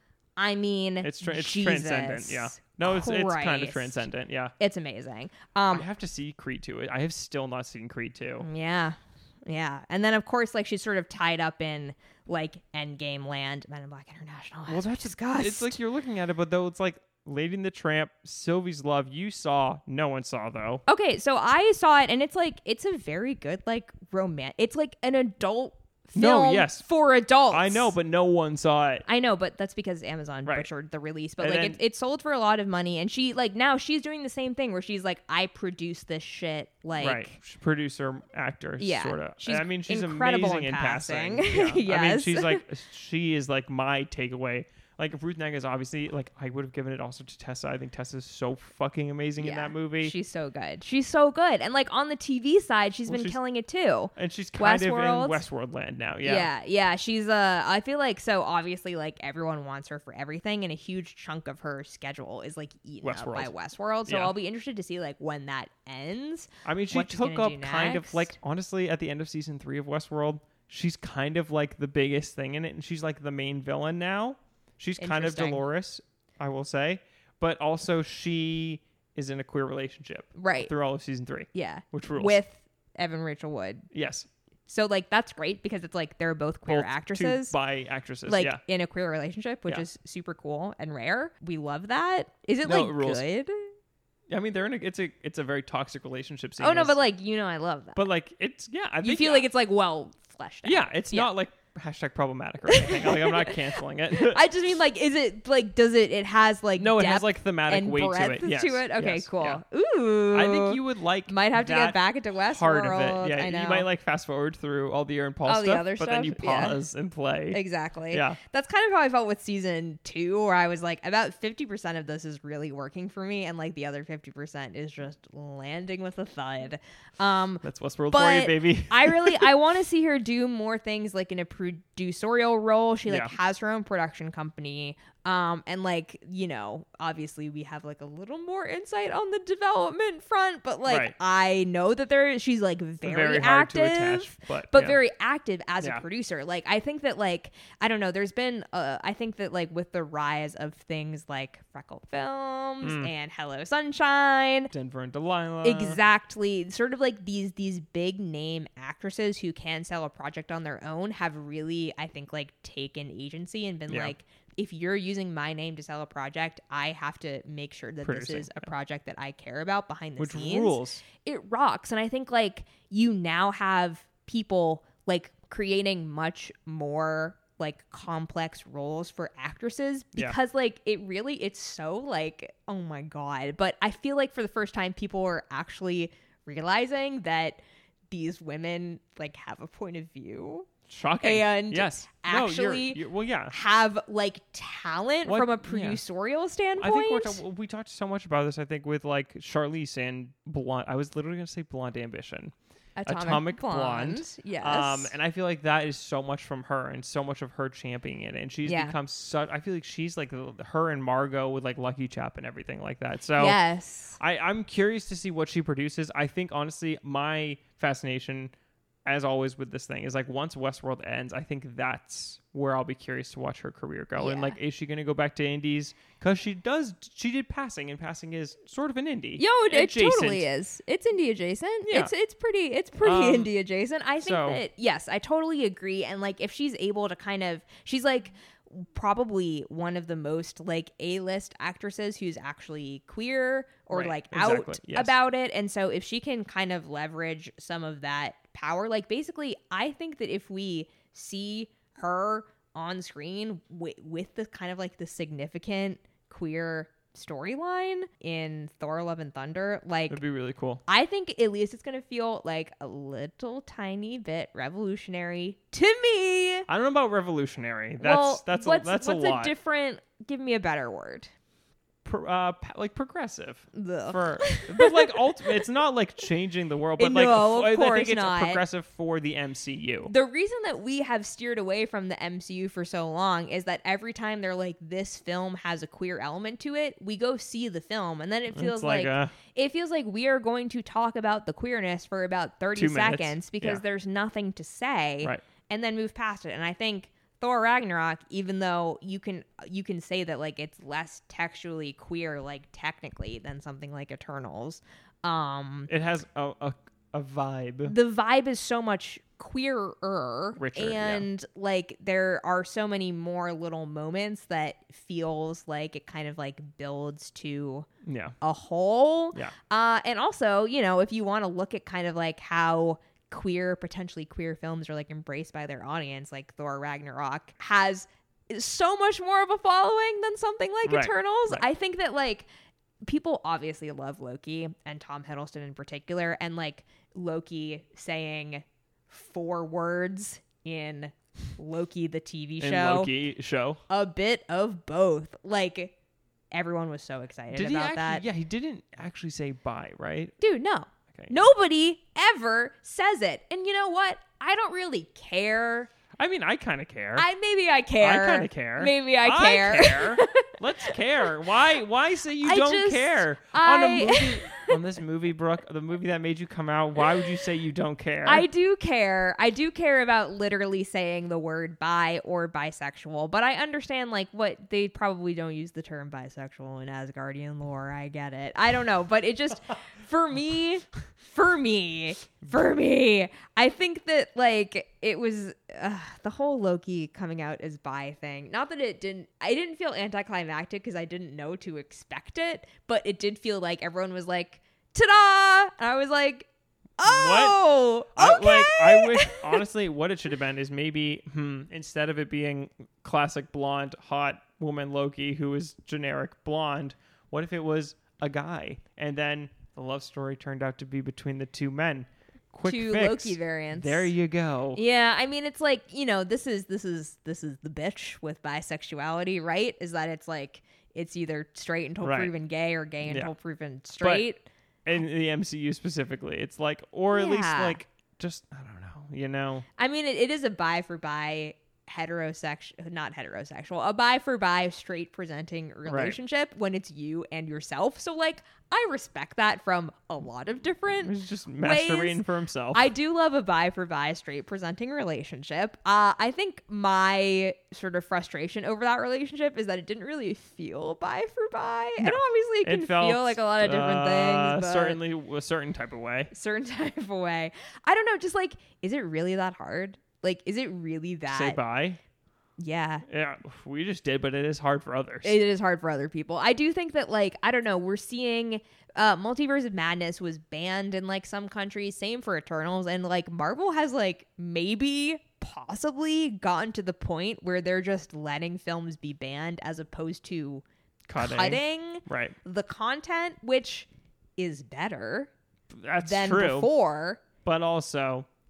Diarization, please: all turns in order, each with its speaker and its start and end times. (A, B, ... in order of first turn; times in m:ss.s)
0:00.4-0:04.0 A
0:01.0-0:04.5 B
0:04.6-0:05.8 A
0:05.7-0:08.4 B
0:08.4-0:15.8 A
0:14.7-0:20.8 B
0:20.9-0:27.9 A
0:26.1-0:26.8 B
0:27.5-0:29.0 B
0:29.0-0:37.4 A
0:31.4-0:31.8 B
0:37.0-0:50.1 B
0:38.8-0:42.6 A
0:49.4-0:55.4 A
0:53.1-0:53.4 B
0:54.2-0:56.5 B
0:56.2-1:08.3 A
1:03.0-1:03.5 B
1:04.1-1:04.3 B
1:06.6-1:22.4 B
1:15.0-1:15.6 A
1:20.4-1:20.7 A
1:21.5-1:23.9 A
1:23.9-1:24.3 B
1:24.7-1:27.5 A
1:26.7-1:28.6 B
1:28.2-1:33.6 A
1:32.6-1:33.2 B
1:34.3-1:37.0 B
1:36.6-1:38.0 A
1:37.9-1:39.5 B
1:39.0-1:41.3 A
1:40.6-1:44.4 B
1:42.7-1:53.9 A
1:46.8-1:49.6 B
1:50.3-1:57.6 B
1:55.4-1:56.8 A
1:57.5-2:34.7 A
1:58.1-1:58.4 B
2:07.6-2:09.5 B
2:13.1-2:13.3 B
2:20.8-2:21.1 B
2:23.0-2:25.0 B
2:32.8-2:33.1 B
2:34.7-2:36.0 B
2:35.6-3:07.6 A
2:43.9-2:44.1 B
2:48.0-2:48.7 B
2:50.2-2:51.0 B
3:08.1-3:10.7 A
3:10.9-3:13.5 B
3:11.2-3:17.4 A
3:15.2-3:16.0 B
3:16.8-3:22.5 B
3:23.0-3:25.1 A
3:23.0-3:33.6 B
3:28.6-3:28.9 A
3:33.4-3:34.2 A
3:34.2-3:38.5 B
3:39.0-3:50.5 B
3:44.2-3:44.6 A
3:49.4-4:20.2 A
3:51.8-3:52.1 B
3:53.0-3:53.5 B
3:54.2-3:54.6 B
4:03.9-4:05.1 B
4:20.1-4:20.8 B
4:20.8-4:26.7 A
4:26.7-4:29.5 B
4:28.0-4:31.3 A
4:32.0-4:40.1 B
4:33.7-4:35.6 A
4:37.0-4:38.6 A
4:40.0-5:05.9 A
4:48.5-4:49.3 B
4:52.8-4:53.8 B
5:05.9-5:07.9 B
5:07.8-5:17.9 A
5:10.6-5:11.2 B
5:18.0-5:18.4 B
5:18.4-5:32.5 A
5:30.8-5:31.6 B
5:33.0-5:43.1 A
5:42.6-5:43.8 B
5:43.9-5:45.9 A
5:46.5-5:48.2 A
5:47.5-5:50.3 B
5:50.4-5:55.9 A
5:56.1-5:57.3 B
5:57.2-6:01.3 A
5:58.0-6:08.4 B
6:02.4-6:04.8 A
6:08.2-6:39.6 A
6:37.0-6:54.8 B
6:52.6-6:54.1 A
6:54.7-7:04.4 A
7:02.0-7:02.3 B
7:03.0-7:03.3 B
7:04.8-7:09.6 B
7:07.1-7:07.8 A
7:09.8-7:35.0 A
7:15.8-7:16.2 B
7:21.0-7:22.8 B
7:32.0-7:36.3 B
7:36.3-7:41.6 A
7:41.3-7:42.0 B
7:42.6-7:43.0 A
7:43.1-7:45.4 B
7:45.2-8:00.6 A
8:01.1-8:02.4 B
8:01.2-8:03.9 A
8:04.4-8:05.3 A
8:05.7-8:06.7 B
8:06.0-8:07.2 A
8:07.4-8:08.2 B